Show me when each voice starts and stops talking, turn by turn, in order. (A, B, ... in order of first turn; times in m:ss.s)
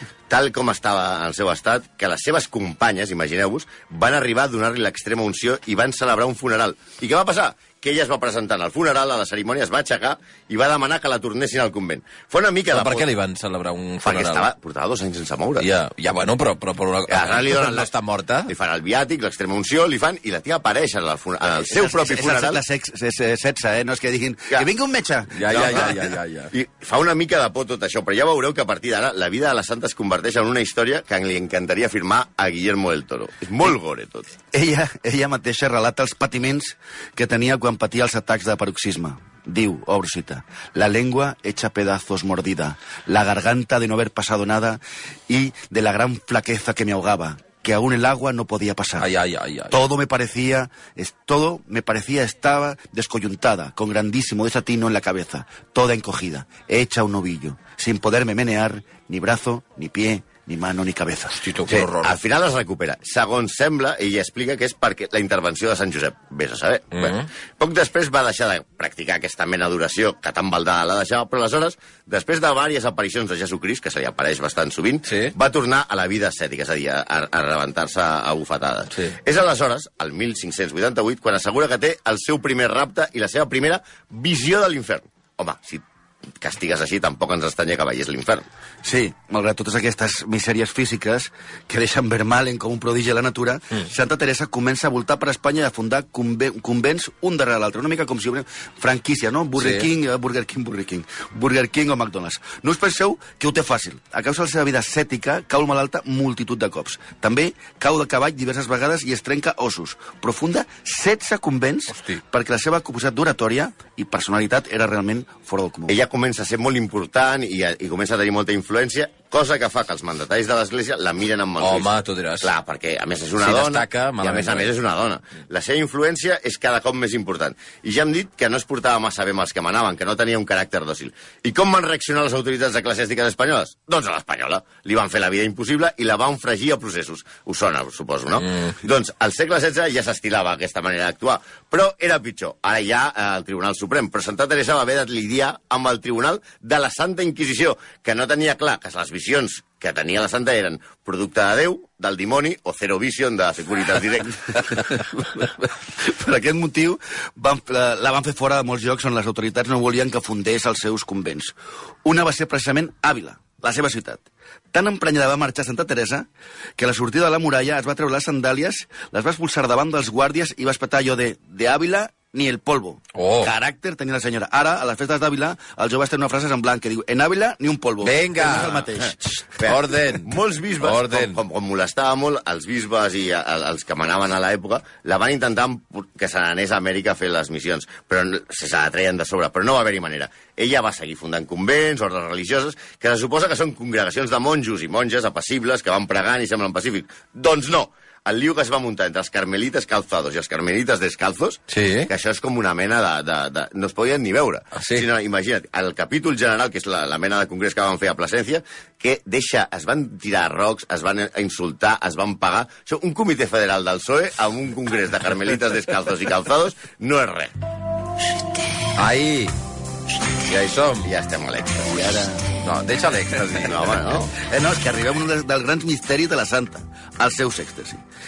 0:00.3-0:13.1 A
0:12.7-0:14.5 B
0:14.0-0:15.7 A
0:15.6-0:18.5 B
0:17.1-0:17.9 A
0:18.5-0:22.6 A
0:21.6-0:25.8 C
0:25.3-0:26.5 B
0:25.4-0:34.3 A
0:34.5-0:49.1 C
0:49.0-0:49.8 B
0:49.7-1:01.4 C
1:01.3-1:02.2 B
1:01.7-1:25.8 A
1:06.9-1:07.3 B
1:15.1-1:15.3 B
1:26.4-1:28.4 A
1:28.8-1:56.0 C
1:39.6-1:39.9 B
1:51.9-1:52.2 B
1:55.9-2:34.4 A
2:01.6-2:02.5 B
2:03.4-2:04.7 B
2:18.4-2:18.7 B
2:34.8-2:59.2 C
2:53.1-2:53.5 B
2:58.0-2:58.9 B
2:58.6-2:59.0 A
2:59.6-3:37.5 A
2:59.6-3:01.4 B
3:21.7-3:22.1 B
3:24.7-3:25.1 B
3:39.0-3:39.5 B
3:40.5-3:41.1 B
3:41.0-3:42.1 A
3:41.9-3:42.4 C
3:42.6-3:44.1 B
3:43.6-3:44.3 A
3:44.4-3:48.0 C